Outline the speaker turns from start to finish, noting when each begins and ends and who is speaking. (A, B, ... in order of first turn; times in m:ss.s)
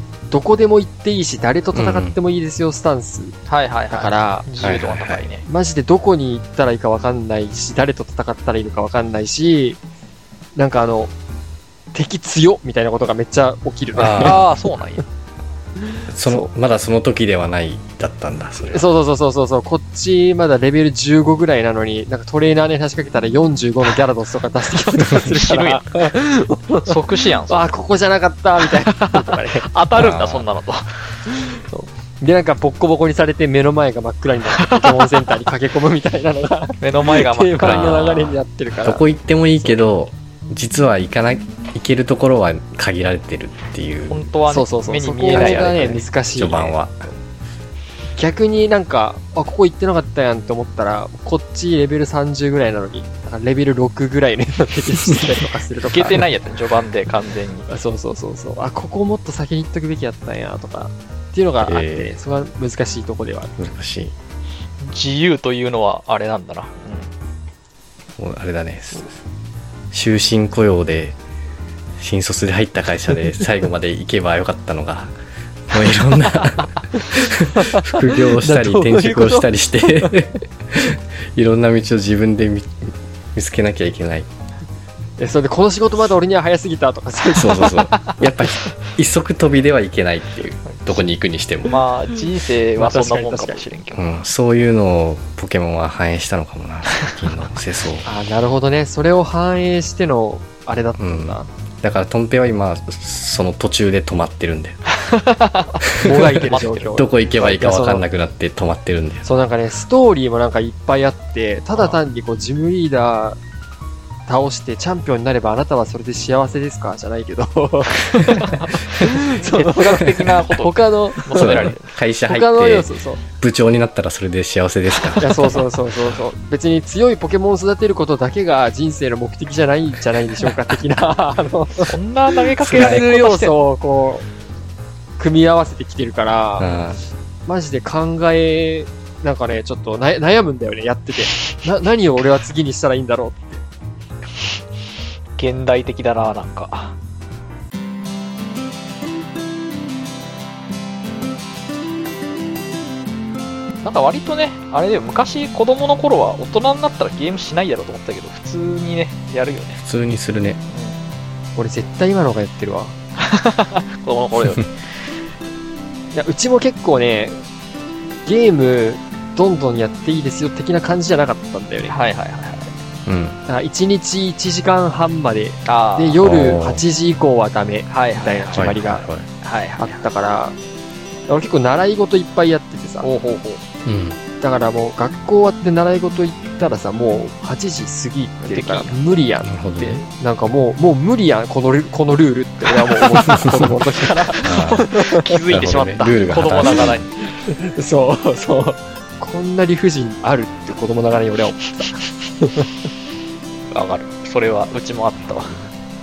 0:00.3-0:03.4 A
0:01.7-0:02.2 B
0:03.5-0:05.4 C
0:03.9-0:04.5 A
0:04.6-0:05.3 B
0:05.4-0:09.8 A
0:10.6-0:11.1 A
0:11.9-0:14.5 A
0:14.0-0:14.5 B
0:14.1-0:15.0 C
0:15.9-0:16.5 A
0:16.1-0:18.9 B
0:18.7-0:29.7 A
0:25.0-0:25.9 C
0:26.9-0:27.7 C
0:28.6-0:31.0 C
0:29.9-0:30.5 B
0:31.4-0:39.0 A
0:34.5-0:35.3 C
0:36.8-0:38.4 C
0:37.6-0:44.3 B
0:44.1-0:46.0 C
0:44.5-0:46.7 A
0:45.3-0:47.1 B
0:48.2-0:56.3 A
0:55.0-0:55.3 B
0:55.9-0:57.7 C
0:57.7-1:03.5 A
1:01.6-1:02.1 B
1:03.6-1:04.2 B
1:04.8-1:07.1 C
1:08.2-1:09.2 B
1:09.9-1:11.2 B
1:12.0-1:15.1 B
1:15.7-1:24.3 B
1:17.0-1:20.2 A
1:25.2-1:27.8 A
1:27.3-1:31.8 B
1:31.7-1:34.2 C
1:32.8-1:33.6 A
1:33.9-1:38.1 B
1:38.0-1:41.5 A
1:41.0-1:45.0 B
1:45.0-1:47.0 C
1:45.9-1:46.3 B
1:46.0-1:48.0 A
1:46.9-1:49.3 B
1:49.2-1:53.4 A
1:54.3-2:01.7 A
1:58.3-2:01.8 C
2:01.3-2:05.6 B
2:02.3-2:03.2 A
2:05.2-2:14.3 A
2:11.8-2:13.6 C
2:12.6-2:13.0 B
2:15.2-2:16.7 A
2:16.6-2:17.0 B
2:16.6-2:16.9 C
2:17.5-2:23.6 A
2:25.4-2:27.0 C
2:33.8-2:39.8 C
2:39.8-2:40.6 B
2:40.7-2:41.0 C
2:41.6-2:43.0 A
2:43.2-2:44.7 C
2:46.1-2:47.4 A
2:48.2-2:52.0 A
2:51.9-2:52.7 C
2:53.1-2:53.4 B
2:53.5-2:59.1 A
2:55.6-2:56.3 C
2:56.2-2:56.8 B
2:57.9-2:58.8 C
2:58.5-2:59.3 B
2:59.4-3:00.0 C
2:59.8-3:00.6 A
3:01.3-3:03.1 A
3:03.0-3:03.6 C
3:03.8-3:04.2 B
3:04.4-3:15.4 A
3:08.4-3:09.0 C
3:09.4-3:10.0 B
3:12.7-3:17.3 C
3:13.3-3:13.7 B
3:14.4-3:14.8 B
3:15.5-3:17.0 B
3:17.4-3:22.7 A
3:23.7-3:25.6 C
3:25.3-3:25.7 B